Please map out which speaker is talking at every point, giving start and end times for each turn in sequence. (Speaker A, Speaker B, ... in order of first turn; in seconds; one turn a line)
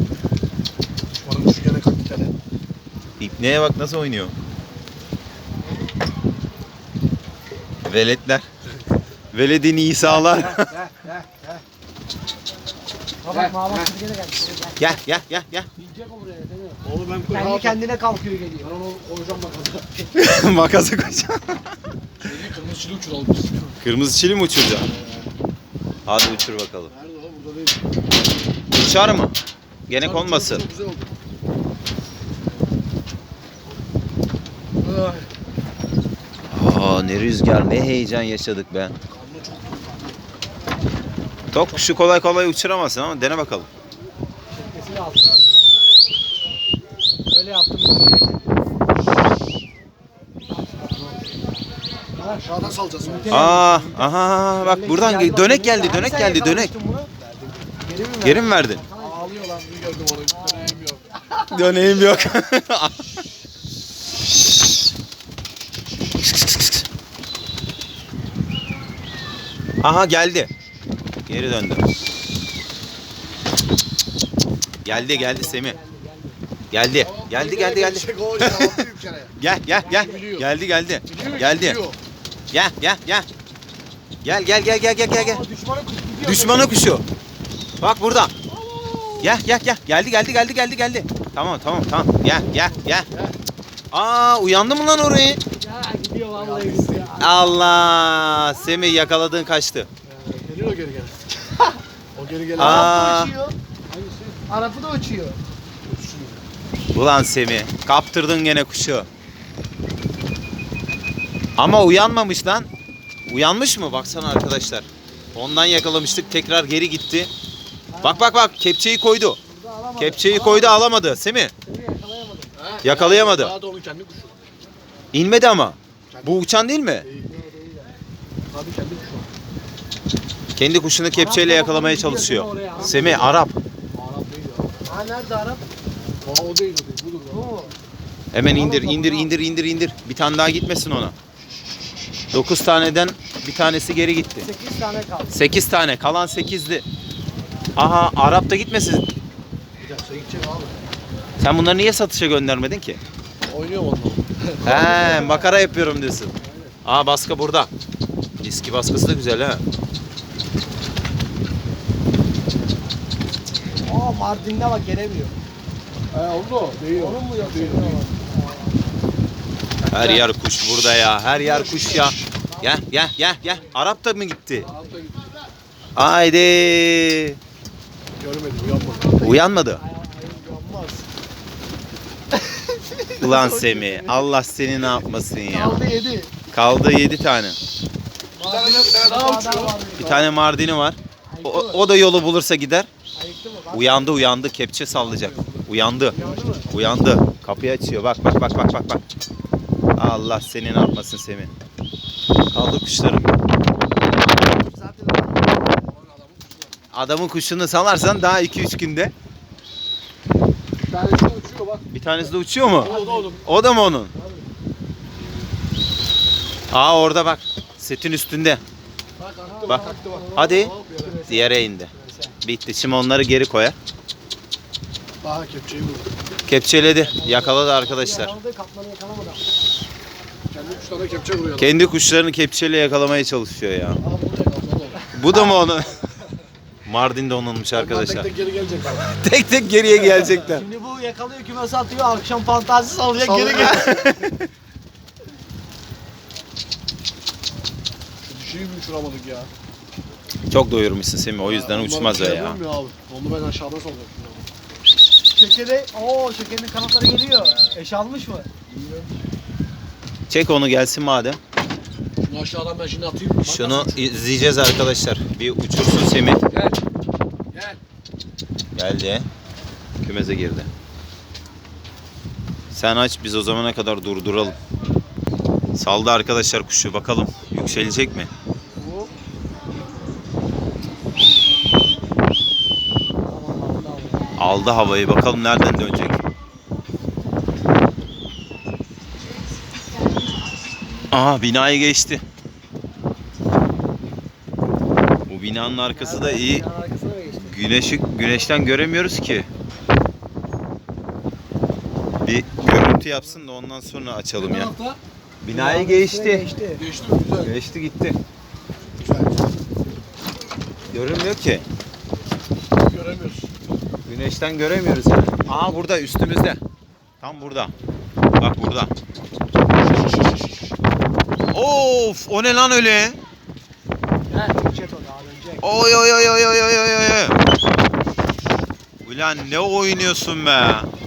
Speaker A: 1.1-2.3
Speaker B: 3.2-4.3
Speaker B: 7.8-8.4
Speaker B: 9.3-10.7
Speaker A: 10.4-11.6
Speaker C: 13.2-15.0
Speaker A: 13.3-13.9
Speaker B: 14.8-15.7
Speaker C: 15.8-18.7
Speaker A: 16.8-17.8
Speaker A: 18.7-20.1
Speaker B: 20.1-21.6
Speaker A: 22.2-23.8
Speaker B: 23.8-24.9
Speaker A: 24.9-25.3
Speaker B: 26.1-26.9
Speaker A: 26.9-27.8
Speaker B: 28.7-29.3
Speaker B: 29.9-30.6
Speaker A: 30.0-31.1
Speaker A: 34.8-35.3
Speaker B: 36.5-38.9
Speaker A: 39.1-40.2
Speaker B: 41.5-43.7
Speaker C: 44.5-45.6
Speaker C: 47.3-48.5
Speaker C: 50.6-51.2
Speaker C: 52.2-54.1
Speaker A: 52.4-53.5
Speaker B: 53.3-56.7
Speaker C: 54.6-57.2
Speaker C: 57.8-59.3
Speaker B: 58.2-58.8
Speaker A: 59.0-61.1
Speaker C: 60.3-62.0
Speaker B: 61.5-63.0
Speaker B: 66.2-66.8
Speaker B: 69.8-70.5
Speaker B: 71.2-71.8
Speaker B: 74.8-75.8
Speaker C: 74.9-76.4
Speaker B: 76.7-78.7
Speaker A: 77.0-79.3
Speaker B: 79.4-81.8
Speaker C: 79.7-80.3
Speaker A: 80.0-80.5
Speaker A: 81.1-82.0
Speaker B: 82.5-83.3
Speaker B: 84.2-85.4
Speaker C: 85.1-86.7
Speaker B: 86.2-87.0
Speaker B: 87.8-88.3
Speaker B: 89.2-93.1
Speaker A: 92.7-93.3
Speaker B: 93.9-95.4
Speaker C: 95.5-98.0
Speaker A: 96.3-97.2
Speaker B: 97.2-99.9
Speaker A: 100.1-101.2
Speaker A: 102.1-103.0
Speaker B: 102.5-103.3
Speaker C: 102.5-103.6
Speaker C: 104.2-105.4
Speaker A: 105.8-106.4
Speaker B: 106.9-109.1
Speaker B: 111.6-112.7
Speaker B: 113.3-117.3
Speaker C: 117.9-118.3
Speaker B: 118.0-119.4
Speaker C: 119.5-120.8
Speaker B: 120.0-121.5
Speaker C: 121.6-122.5
Speaker A: 122.6-124.4
Speaker B: 122.8-123.5
Speaker B: 125.1-127.1
Speaker C: 127.2-127.9
Speaker A: 128.5-129.3
Speaker B: 130.6-133.5
Speaker C: 131.1-133.3
Speaker A: 133.9-134.8
Speaker C: 134.9-135.6
Speaker A: 136.2-137.5
Speaker C: 137.3-137.7
Speaker B: 138.3-141.1
Speaker C: 138.5-139.3
Speaker B: 142.3-144.5
Speaker C: 144.4-145.4
Speaker B: 145.3-146.8
Speaker B: 147.8-149.1
Speaker A: 149.8-150.7
Speaker B: 151.4-153.0
Speaker A: 153.4-154.9
Speaker B: 154.6-156.3
Speaker C: 154.7-155.6
Speaker A: 156.4-156.7
Speaker B: 156.8-157.7
Speaker B: 158.4-159.6
Speaker C: 163.8-165.3
Speaker A: 166.1-168.0
Speaker C: 166.9-168.7
Speaker B: 169.9-174.7
Speaker C: 169.9-170.2
Speaker A: 171.3-172.3
Speaker C: 172.6-172.8
Speaker A: 174.6-175.3
Speaker B: 175.9-177.4
Speaker A: 178.2-179.1
Speaker C: 178.7-181.1
Speaker B: 179.2-179.8
Speaker C: 182.6-184.2
Speaker B: 183.2-185.8
Speaker C: 185.5-186.3
Speaker B: 186.5-187.6
Speaker C: 188.3-190.1
Speaker A: 188.4-190.3
Speaker B: 190.0-192.9
Speaker C: 191.3-191.8
Speaker C: 193.1-194.2
Speaker B: 193.7-199.0
Speaker A: 194.9-196.7
Speaker C: 196.1-196.7
Speaker B: 199.9-201.5
Speaker B: 202.5-203.4
Speaker A: 205.9-206.7
Speaker B: 206.9-209.1
Speaker A: 210.9-211.9
Speaker B: 211.9-214.1
Speaker A: 212.8-213.4
Speaker C: 212.8-213.4
Speaker B: 216.7-218.6
Speaker A: 219.2-221.2
Speaker C: 219.5-222.4
Speaker B: 219.7-221.9
Speaker B: 222.4-223.8
Speaker A: 225.2-226.2
Speaker B: 226.5-228.3
Speaker C: 226.9-229.4
Speaker A: 230.5-231.8
Speaker B: 231.6-234.0
Speaker A: 234.0-235.1
Speaker B: 235.1-236.0
Speaker B: 236.8-238.3
Speaker A: 237.7-239.1
Speaker B: 239.0-240.7
Speaker C: 240.3-244.1
Speaker A: 243.2-243.9
Speaker B: 243.7-244.3
Speaker A: 248.2-249.5
Speaker B: 250.5-252.6
Speaker A: 251.4-254.4
Speaker C: 255.3-258.5
Speaker A: 258.7-259.1
Speaker B: 260.3-261.4
Speaker A: 262.2-264.0
Speaker B: 263.4-266.4
Speaker A: 266.5-266.8
Speaker A: 267.5-267.8
Speaker B: 268.8-269.3
Speaker B: 270.0-270.7
Speaker B: 272.7-274.6
Speaker B: 275.7-278.3
Speaker C: 278.8-279.1
Speaker C: 283.2-284.4
Speaker B: 284.4-286.2
Speaker B: 291.1-292.2
Speaker B: 295.3-296.6
Speaker C: 295.9-297.6
Speaker B: 297.4-299.5
Speaker B: 302.2-304.7
Speaker C: 304.4-305.0
Speaker B: 305.4-306.5
Speaker C: 305.5-306.9
Speaker A: 306.7-307.5
Speaker B: 307.4-308.2
Speaker A: 309.0-309.3
Speaker B: 310.9-311.6
Speaker A: 312.8-313.5
Speaker B: 314.1-316.6
Speaker B: 317.2-317.7
Speaker B: 318.4-318.9
Speaker B: 321.5-323.2
Speaker C: 324.3-325.8
Speaker B: 325.6-327.4
Speaker B: 329.0-330.9